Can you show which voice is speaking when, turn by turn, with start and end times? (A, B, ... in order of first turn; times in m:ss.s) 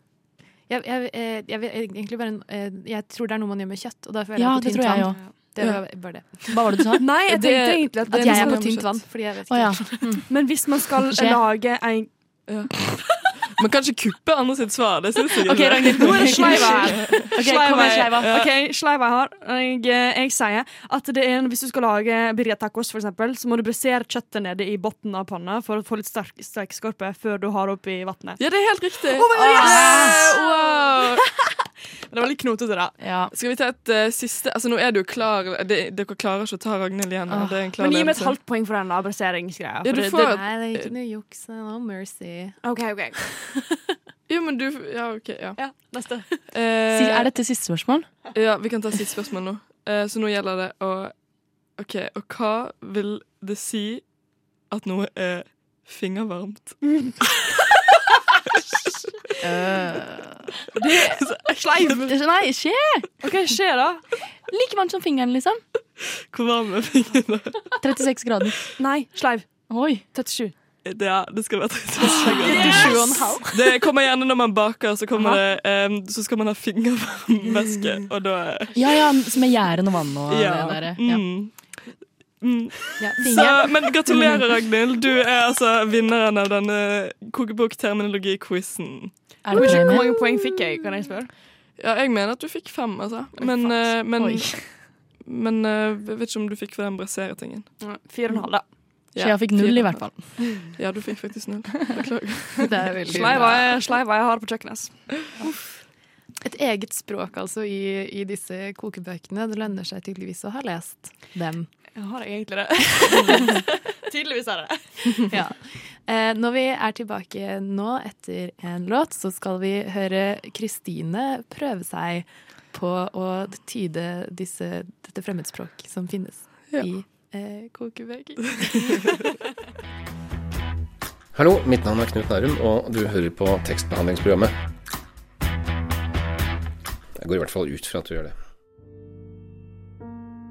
0:00.7-0:06.9 A
0:04.4-0:05.2 B
0:06.5-0:11.4 B
0:07.0-0:08.8 C
0:08.1-0:10.2 A
0:10.3-0:12.1 C
0:12.5-0:18.5 D
0:15.4-0:18.4 B
0:15.9-0:31.0 C
0:28.4-0:31.1 D
0:29.3-0:30.8 B
0:32.1-0:32.9 C
0:33.0-0:33.3 B
0:33.3-0:38.4 D
0:37.3-0:37.8 B
0:37.8-0:40.4 C
0:39.8-0:40.9 D
0:40.2-0:42.6 A
0:42.6-0:43.5 C
0:44.3-0:45.9 D
0:45.6-0:46.4 C
0:46.5-0:47.3 D
0:46.9-0:48.1 B
0:48.3-0:57.4 D
0:59.4-1:00.5 B
1:00.7-1:02.1 C
1:00.8-1:02.0 D
1:02.0-1:03.3 B
1:03.2-1:04.0 C
1:04.5-1:05.6 B
1:06.3-1:07.8 D
1:07.8-1:08.6 B
1:08.8-1:10.5 C
1:09.7-1:10.0 B
1:10.8-1:18.8 D
1:12.1-1:13.6 A
1:12.1-1:13.0 C
1:15.1-1:15.4 C
1:18.7-1:21.4 B
1:20.3-1:29.7 D
1:23.0-1:24.0 A
1:29.4-1:30.2 B
1:29.5-1:31.3 C
1:31.8-1:37.8 D
1:33.4-1:33.8 C
1:34.2-1:34.8 B
1:37.8-1:38.6 C
1:39.1-1:43.5 D
1:39.2-1:40.8 B
1:42.6-1:43.8 A
1:43.1-1:45.3 C
1:45.4-1:45.8 A
1:46.4-1:51.7 A
1:52.0-1:55.3 C
1:55.3-2:09.4 A
2:11.3-2:14.5 E
2:17.2-2:18.4 E